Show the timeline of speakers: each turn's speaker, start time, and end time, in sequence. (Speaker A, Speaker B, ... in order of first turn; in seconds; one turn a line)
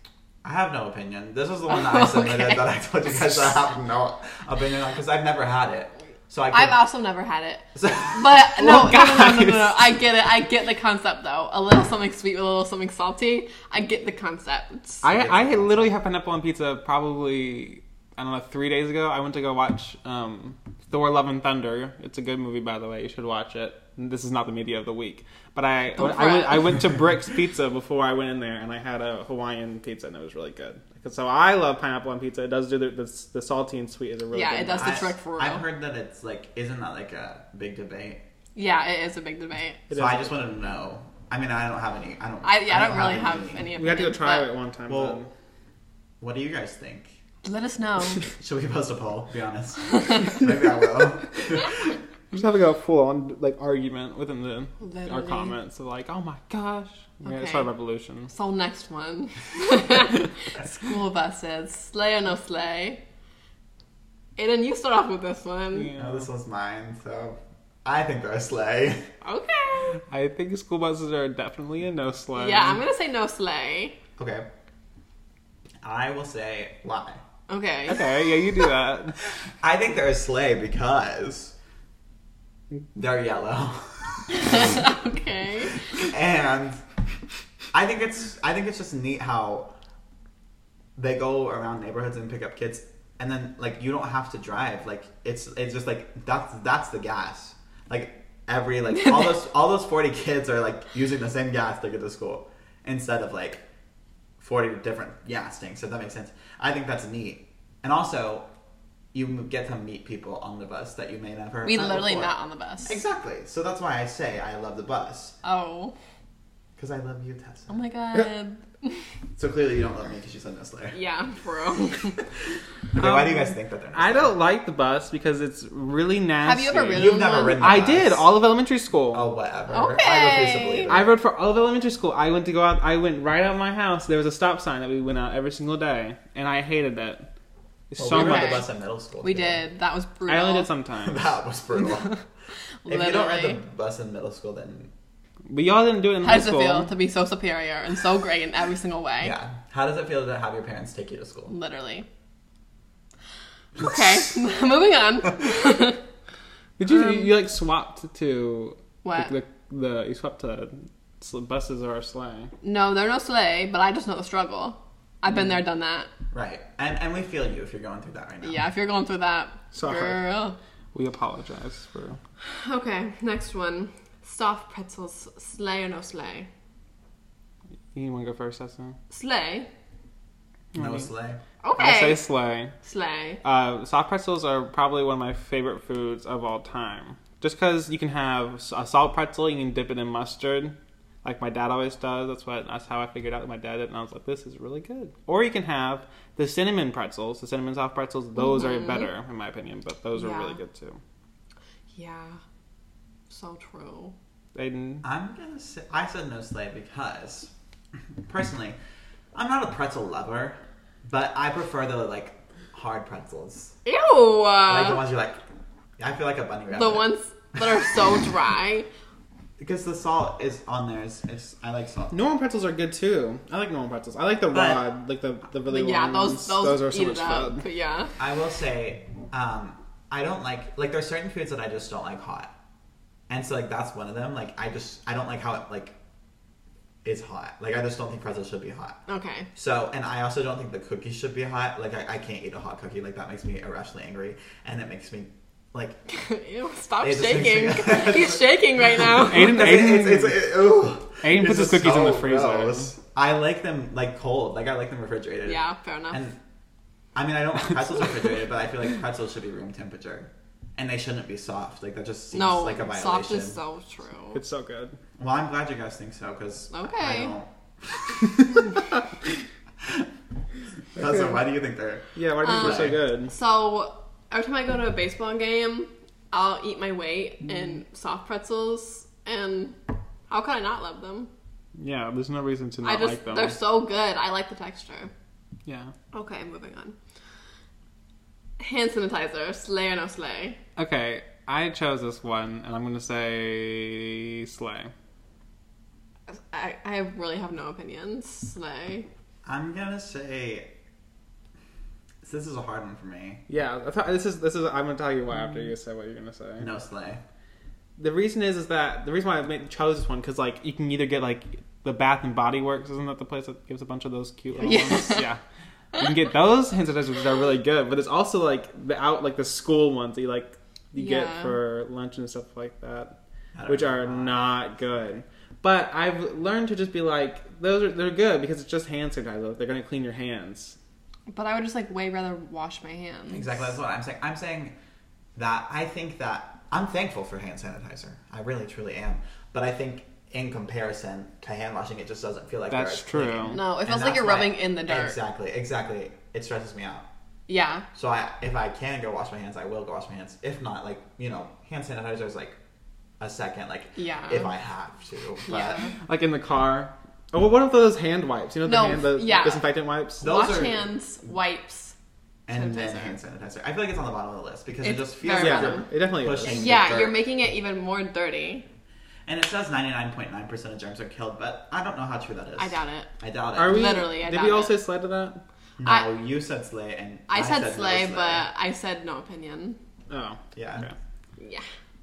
Speaker A: 0.4-6.8
Speaker B: 1.7-2.7
Speaker B: 6.5-15.0
Speaker A: 7.8-8.3
Speaker C: 8.6-9.8
Speaker C: 15.0-35.1
Speaker A: 15.0-15.9
Speaker B: 26.0-26.8
Speaker B: 34.3-35.6
Speaker A: 34.7-38.2
Speaker B: 38.6-39.8
Speaker C: 39.9-40.4
Speaker A: 39.9-43.7
Speaker B: 42.4-44.5
Speaker C: 43.8-45.3
Speaker A: 44.9-45.2
Speaker A: 46.2-47.2
Speaker B: 47.4-48.3
Speaker A: 48.3-52.0
Speaker B: 49.9-50.4
Speaker C: 52.3-58.3
Speaker B: 54.8-55.6
Speaker B: 57.2-57.7
Speaker B: 58.3-63.0
Speaker B: 64.4-65.9
Speaker C: 65.7-66.3
Speaker A: 66.0-69.1
Speaker B: 69.2-70.0
Speaker C: 70.1-72.8
Speaker B: 72.4-74.0
Speaker A: 74.2-74.5
Speaker A: 75.8-77.2
Speaker B: 77.5-78.1
Speaker C: 77.9-79.2
Speaker A: 79.6-81.5
Speaker A: 83.0-84.6
Speaker B: 84.3-85.9
Speaker A: 86.0-86.8
Speaker A: 87.7-89.7
Speaker A: 91.0-103.6
Speaker B: 98.9-99.4
Speaker A: 104.4-108.5
Speaker A: 109.1-112.3
Speaker B: 111.7-113.0
Speaker A: 112.8-115.4
Speaker B: 115.4-115.9
Speaker A: 116.8-117.8
Speaker B: 117.7-119.0
Speaker A: 119.4-121.0
Speaker B: 120.9-122.2
Speaker A: 122.9-124.4
Speaker C: 123.0-129.3
Speaker B: 126.4-127.7
Speaker A: 126.9-128.3
Speaker A: 129.1-131.2
Speaker B: 129.7-130.9
Speaker C: 130.9-137.3
Speaker C: 137.9-138.6
Speaker A: 138.0-139.6
Speaker B: 138.1-138.7
Speaker B: 139.2-140.7
Speaker C: 140.3-141.2
Speaker A: 141.0-142.2
Speaker B: 141.8-142.1
Speaker B: 142.8-143.6
Speaker A: 142.9-144.9
Speaker C: 145.5-146.9
Speaker B: 146.2-149.3
Speaker A: 149.2-151.5
Speaker B: 151.5-152.1
Speaker B: 153.8-156.0
Speaker C: 156.8-162.5
Speaker B: 159.0-159.3
Speaker B: 162.6-166.1
Speaker A: 166.3-168.7
Speaker B: 168.4-170.6
Speaker C: 169.7-170.2
Speaker C: 170.9-172.2
Speaker B: 172.4-176.5
Speaker C: 177.9-179.0
Speaker B: 179.1-179.7
Speaker C: 180.7-181.1
Speaker A: 180.8-181.4
Speaker B: 181.6-182.2
Speaker C: 181.8-182.7
Speaker B: 182.8-183.4
Speaker C: 183.4-201.0
Speaker B: 198.4-199.1
Speaker B: 200.2-200.6
Speaker B: 201.9-202.4
Speaker B: 203.3-204.2
Speaker C: 204.6-205.1
Speaker A: 205.0-207.5
Speaker A: 208.2-208.8
Speaker A: 209.3-213.8
Speaker B: 213.8-215.0
Speaker A: 214.7-215.4
Speaker A: 216.0-217.7
Speaker B: 216.7-218.9
Speaker A: 219.6-222.2
Speaker C: 222.1-227.6
Speaker A: 224.5-224.8
Speaker B: 225.7-228.1
Speaker A: 228.2-232.5
Speaker A: 233.3-236.0
Speaker A: 237.1-239.0
Speaker B: 239.1-239.5
Speaker A: 239.6-246.0
Speaker B: 246.1-249.6
Speaker A: 247.0-248.5
Speaker A: 249.1-256.4
Speaker C: 249.3-250.4
Speaker C: 251.2-252.9
Speaker B: 255.5-256.2
Speaker A: 257.1-263.6
Speaker B: 262.3-264.4
Speaker C: 264.3-265.0
Speaker A: 265.2-268.8
Speaker B: 266.7-267.3
Speaker A: 271.0-273.0
Speaker C: 271.0-271.4
Speaker C: 272.1-273.3
Speaker B: 272.4-281.3
Speaker C: 281.8-283.6
Speaker B: 282.8-285.1
Speaker C: 285.7-285.9
Speaker B: 286.1-287.0
Speaker B: 288.6-290.6
Speaker C: 290.8-294.9
Speaker B: 296.4-299.1
Speaker A: 299.4-300.7
Speaker A: 302.2-303.4
Speaker C: 303.5-306.7
Speaker A: 306.6-307.2
Speaker C: 308.0-315.4
Speaker B: 314.6-315.3
Speaker C: 315.9-323.1
Speaker B: 321.0-321.6
Speaker A: 323.6-324.5
Speaker C: 323.7-330.8
Speaker B: 331.3-333.6
Speaker A: 333.3-334.8
Speaker A: 335.4-347.1
Speaker C: 342.7-343.6
Speaker B: 343.5-345.2
Speaker B: 347.5-347.9
Speaker A: 347.9-352.6
Speaker A: 353.2-355.9
Speaker B: 354.0-354.5
Speaker B: 355.5-355.9
Speaker C: 356.1-360.3
Speaker B: 358.7-361.9
Speaker A: 360.2-360.9
Speaker A: 362.5-367.2
Speaker B: 362.5-363.2
Speaker B: 364.8-365.9
Speaker C: 365.3-366.7
Speaker B: 366.4-368.7
Speaker A: 369.3-373.9
Speaker B: 372.6-373.1
Speaker C: 373.6-375.4
Speaker B: 373.6-374.8
Speaker A: 375.8-378.5
Speaker B: 375.8-376.1
Speaker B: 377.3-379.8
Speaker C: 380.1-380.9
Speaker A: 380.6-380.9
Speaker B: 381.4-381.7